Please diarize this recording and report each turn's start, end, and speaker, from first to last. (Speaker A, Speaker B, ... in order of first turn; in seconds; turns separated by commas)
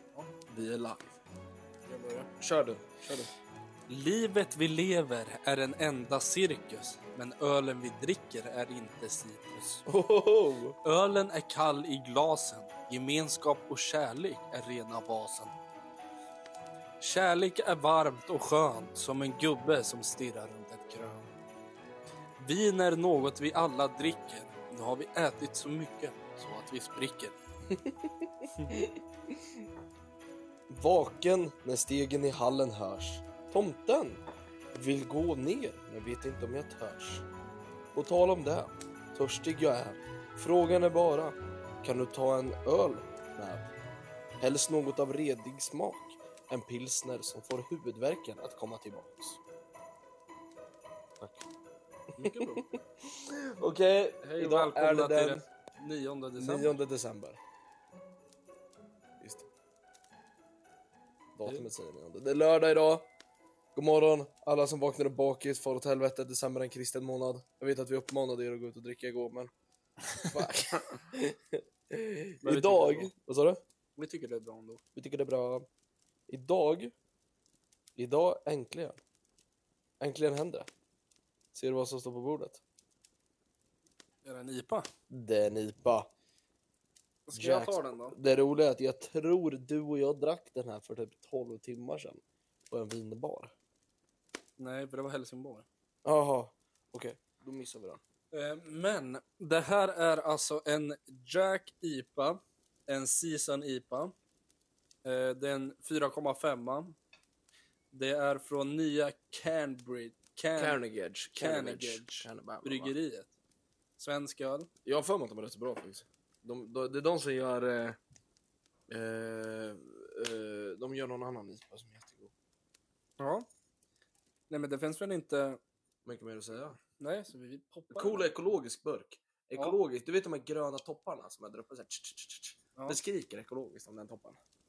Speaker A: 0.5-1.2, Speaker B: 1.9-2.3, Speaker A: 2.4-3.3, Speaker B: 3.9-9.8, Speaker A: 9.9-10.8, Speaker B: 10.8-15.5, Speaker B: 17.0-21.3, Speaker B: 22.4-27.3, Speaker A: 27.7-29.3, Speaker A: 30.7-34.2, Speaker A: 34.7-37.2, Speaker A: 37.9-43.7, Speaker A: 44.4-49.4, Speaker A: 51.2-51.5, Speaker B: 52.2-52.7, Speaker A: 52.2-55.4, Speaker B: 54.2-56.8, Speaker A: 56.4-57.4, Speaker A: 59.2-59.5, Speaker A: 61.4-63.1, Speaker A: 63.7-69.5, Speaker A: 70.3-73.6, Speaker B: 72.4-73.1, Speaker B: 74.0-74.8, Speaker A: 74.9-75.7, Speaker A: 76.3-76.9, Speaker A: 78.0-79.0, Speaker A: 80.0-80.7, Speaker A: 81.5-82.6, Speaker B: 84.2-84.9, Speaker A: 85.1-86.1, Speaker B: 87.3-88.2, Speaker A: 87.3-93.5, Speaker B: 94.6-95.7, Speaker A: 96.0-98.0, Speaker B: 98.3-104.1, Speaker B: 105.0-107.0, Speaker B: 107.9-110.8, Speaker A: 110.6-112.9, Speaker B: 111.3-113.3, Speaker B: 114.0-114.7, Speaker A: 114.8-118.0, Speaker A: 118.9-122.3, Speaker B: 123.2-123.5, Speaker B: 124.5-125.6, Speaker A: 126.0-126.8, Speaker B: 127.0-128.4, Speaker A: 127.9-134.4